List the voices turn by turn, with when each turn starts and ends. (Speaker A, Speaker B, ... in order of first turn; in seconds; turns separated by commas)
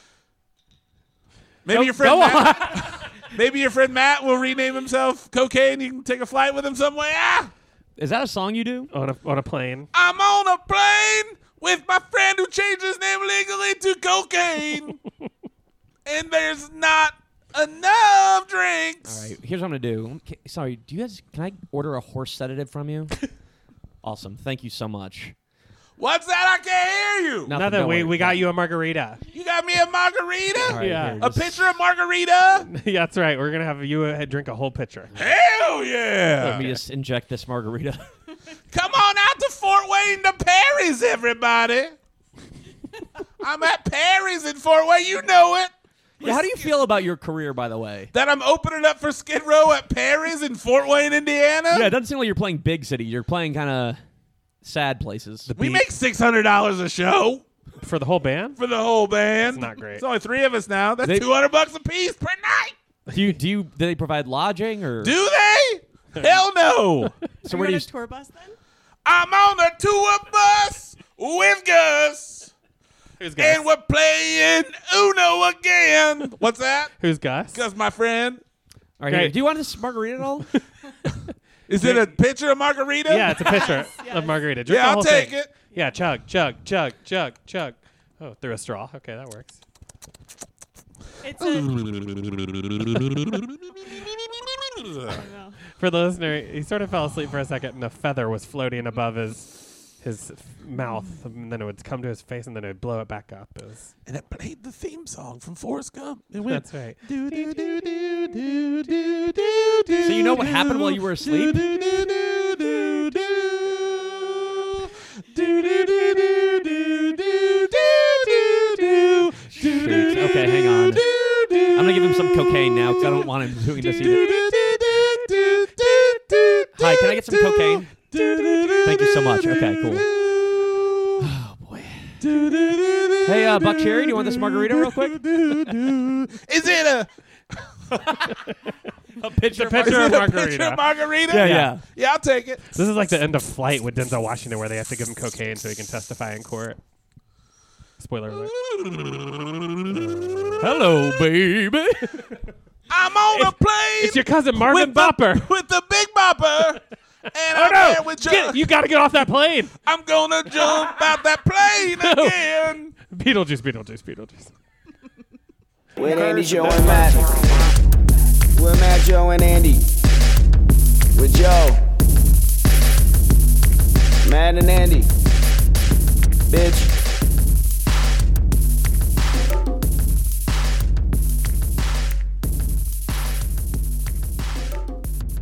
Speaker A: 1.6-7.5, Speaker B: 1.7-2.9, Speaker B: 8.0-8.9, Speaker C: 8.9-9.9, Speaker A: 9.9-15.0, Speaker A: 16.1-19.2, Speaker B: 19.1-23.2, Speaker B: 24.0-25.3, Speaker A: 26.0-27.5, Speaker C: 27.5-29.2, Speaker B: 27.5-28.4, Speaker A: 29.3-32.7, Speaker B: 30.6-31.7, Speaker C: 30.7-31.2, Speaker C: 32.7-35.2, Speaker A: 35.1-36.8, Speaker B: 36.4-38.0, Speaker A: 38.7-41.9, Speaker A: 43.4-46.7, Speaker B: 46.2-48.1, Speaker A: 48.1-51.9, Speaker B: 51.7-54.0, Speaker B: 54.6-55.5, Speaker C: 55.5-55.8, Speaker A: 55.5-57.4, Speaker C: 57.8-58.6, Speaker A: 58.5-62.8, Speaker C: 59.5-60.0, Speaker B: 61.0-61.3, Speaker B: 63.1-65.2, Speaker A: 65.0-67.1, Speaker B: 67.4-67.9, Speaker D: 67.5-68.5, Speaker A: 69.0-72.5, Speaker C: 73.2-73.6, Speaker A: 73.4-76.9, Speaker C: 77.0-77.6, Speaker A: 77.5-78.4, Speaker B: 79.0-80.5, Speaker C: 79.1-79.3, Speaker C: 80.5-81.1, Speaker A: 81.7-83.8, Speaker C: 81.8-82.1, Speaker C: 83.1-89.6, Speaker D: 83.3-84.5, Speaker A: 84.7-85.5, Speaker D: 91.2-91.7, Speaker A: 91.4-95.2, Speaker D: 95.1-95.6, Speaker C: 95.8-103.9, Speaker A: 104.0-114.5, Speaker C: 106.5-108.2, Speaker B: 110.0-112.0, Speaker A: 115.3-120.2, Speaker B: 119.6-121.0, Speaker A: 120.9-121.8, Speaker B: 121.7-124.4, Speaker A: 123.9-126.7, Speaker B: 126.8-127.9, Speaker A: 128.1-128.9, Speaker C: 128.3-129.1, Speaker B: 128.8-130.1, Speaker A: 129.9-131.1, Speaker B: 131.2-132.1, Speaker A: 132.2-134.1, Speaker B: 133.2-135.2, Speaker A: 135.1-138.0, Speaker C: 135.3-135.9, Speaker B: 139.2-140.2, Speaker C: 139.5-141.7, Speaker A: 139.8-142.6, Speaker B: 141.3-141.8, Speaker C: 142.7-146.8, Speaker C: 148.0-148.5, Speaker A: 148.4-150.5, Speaker B: 150.6-152.3, Speaker A: 152.9-156.8, Speaker C: 153.3-155.5, Speaker A: 157.3-158.6, Speaker C: 157.5-159.7, Speaker A: 159.8-162.9, Speaker C: 160.5-161.0, Speaker C: 161.9-162.4, Speaker C: 162.9-164.5, Speaker E: 166.0-167.2, Speaker C: 166.0-167.2, Speaker A: 166.5-167.0, Speaker E: 168.5-169.8, Speaker E: 171.1-171.8, Speaker E: 174.2-175.1, Speaker E: 176.5-176.9